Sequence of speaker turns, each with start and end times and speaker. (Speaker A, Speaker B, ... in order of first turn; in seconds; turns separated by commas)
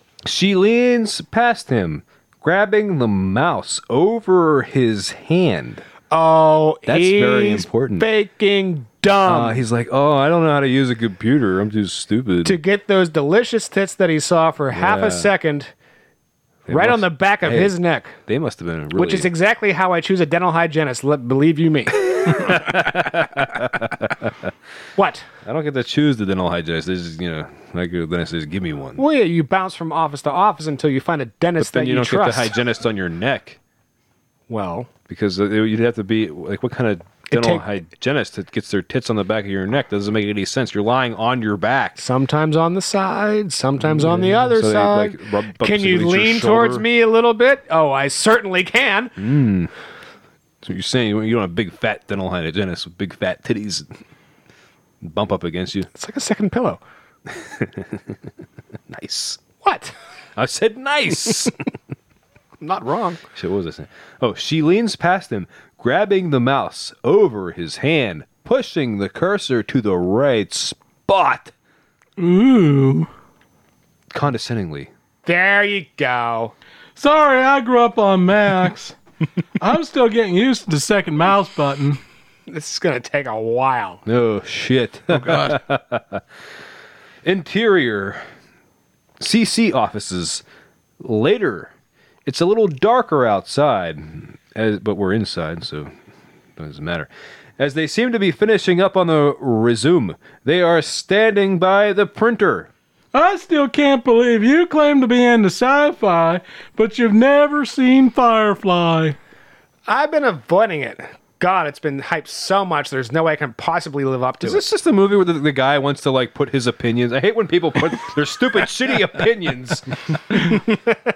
Speaker A: 0.2-5.8, Speaker B: 6.1-9.6, Speaker A: 6.8-8.1, Speaker A: 9.2-12.6, Speaker B: 12.4-15.7, Speaker A: 14.7-15.3, Speaker A: 16.7-17.7, Speaker B: 16.7-18.2, Speaker A: 18.2-19.3, Speaker B: 18.9-22.4, Speaker A: 22.3-24.3, Speaker B: 25.0-25.2, Speaker A: 25.4-29.0, Speaker B: 29.0-32.5, Speaker A: 31.6-33.6, Speaker B: 34.5-34.9, Speaker A: 35.1-42.0, Speaker B: 37.3-37.6, Speaker B: 42.0-49.2, Speaker A: 43.8-46.8, Speaker A: 49.2-49.7, Speaker A: 50.6-53.9, Speaker A: 55.0-55.9, Speaker B: 55.9-56.8, Speaker A: 57.3-58.0, Speaker A: 58.9-59.4, Speaker B: 59.6-59.9, Speaker A: 60.4-61.5, Speaker B: 62.6-63.2, Speaker A: 63.3-71.5, Speaker C: 72.2-73.1, Speaker A: 74.1-74.9, Speaker B: 75.2-76.5, Speaker C: 77.0-79.0, Speaker C: 79.6-82.0, Speaker B: 82.5-84.0, Speaker A: 84.0-86.2, Speaker C: 85.1-85.6, Speaker A: 87.2-88.2, Speaker A: 89.2-90.4, Speaker A: 91.0-91.7, Speaker A: 92.2-95.9, Speaker A: 96.6-102.7, Speaker C: 103.1-109.2, Speaker B: 109.9-114.6, Speaker A: 114.4-120.4, Speaker B: 120.4-121.0